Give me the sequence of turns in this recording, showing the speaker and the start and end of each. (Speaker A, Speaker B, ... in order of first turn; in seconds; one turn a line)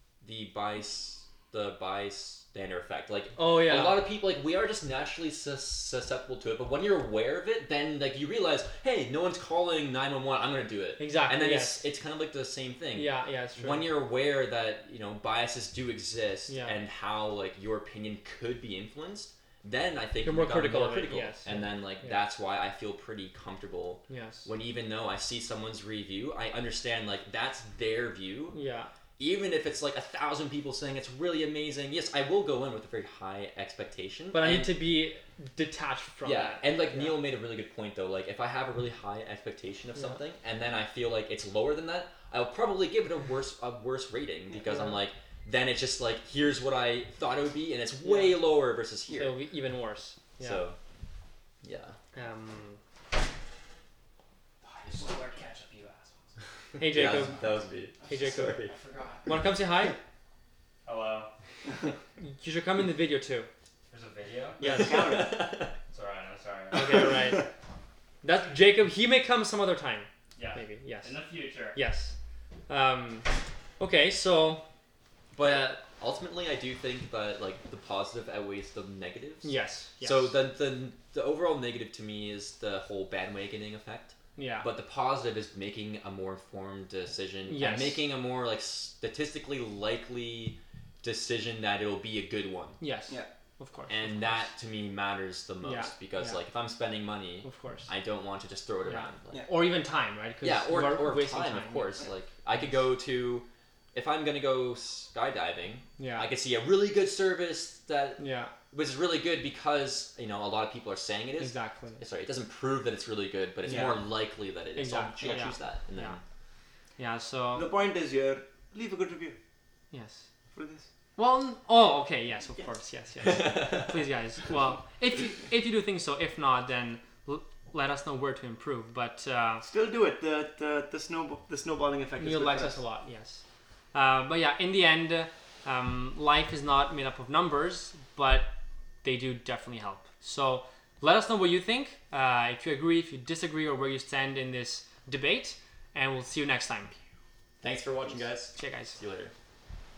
Speaker A: 0.2-28.6
Speaker B: 3.4-4.0
Speaker B: 11.0-11.9
Speaker B: 12.9-13.8
Speaker B: 16.5-16.8
Speaker B: 20.2-22.2
Speaker B: 24.1-24.5
Speaker B: 28.5-28.9
Speaker A: 29.2-34.7
Speaker B: 34.3-37.2
Speaker A: 36.2-49.3
Speaker B: 48.0-48.3
Speaker B: 49.1-50.6
Speaker A: 50.4-50.8
Speaker A: 51.6-52.0
Speaker B: 52.1-52.8
Speaker C: 54.6-59.5
Speaker A: 54.9-55.4
Speaker B: 56.8-57.3
Speaker A: 56.8-59.0
Speaker B: 58.1-58.6
Speaker B: 59.2-59.9
Speaker C: 60.9-61.3
Speaker B: 62.2-63.5
Speaker C: 63.9-64.9
Speaker A: 64.0-67.4
Speaker D: 64.6-65.4
Speaker B: 64.6-65.0
Speaker C: 65.9-67.3
Speaker B: 66.7-67.5
Speaker B: 68.2-71.2
Speaker C: 70.3-71.8
Speaker A: 71.0-71.4
Speaker B: 71.7-72.2
Speaker B: 72.7-73.2
Speaker B: 73.8-74.6
Speaker A: 75.3-92.8
Speaker B: 75.4-75.8
Speaker B: 79.4-80.3
Speaker B: 84.4-84.7
Speaker B: 87.5-88.0
Speaker B: 92.8-94.5
Speaker A: 93.9-99.4
Speaker B: 95.6-96.4
Speaker B: 97.4-97.9
Speaker B: 98.8-102.0
Speaker A: 100.4-108.2
Speaker B: 106.0-106.3
Speaker B: 108.2-108.5
Speaker A: 108.7-116.2
Speaker B: 111.4-112.0
Speaker D: 113.6-114.0
Speaker B: 114.7-116.2
Speaker D: 115.2-115.5
Speaker B: 117.0-117.7
Speaker D: 117.5-119.4
Speaker B: 119.9-120.3
Speaker D: 120.5-120.9
Speaker B: 121.2-129.7
Speaker A: 123.2-124.0
Speaker D: 129.6-132.8
Speaker B: 132.2-138.5
Speaker B: 139.0-146.9
Speaker A: 147.6-149.3
Speaker B: 148.5-149.0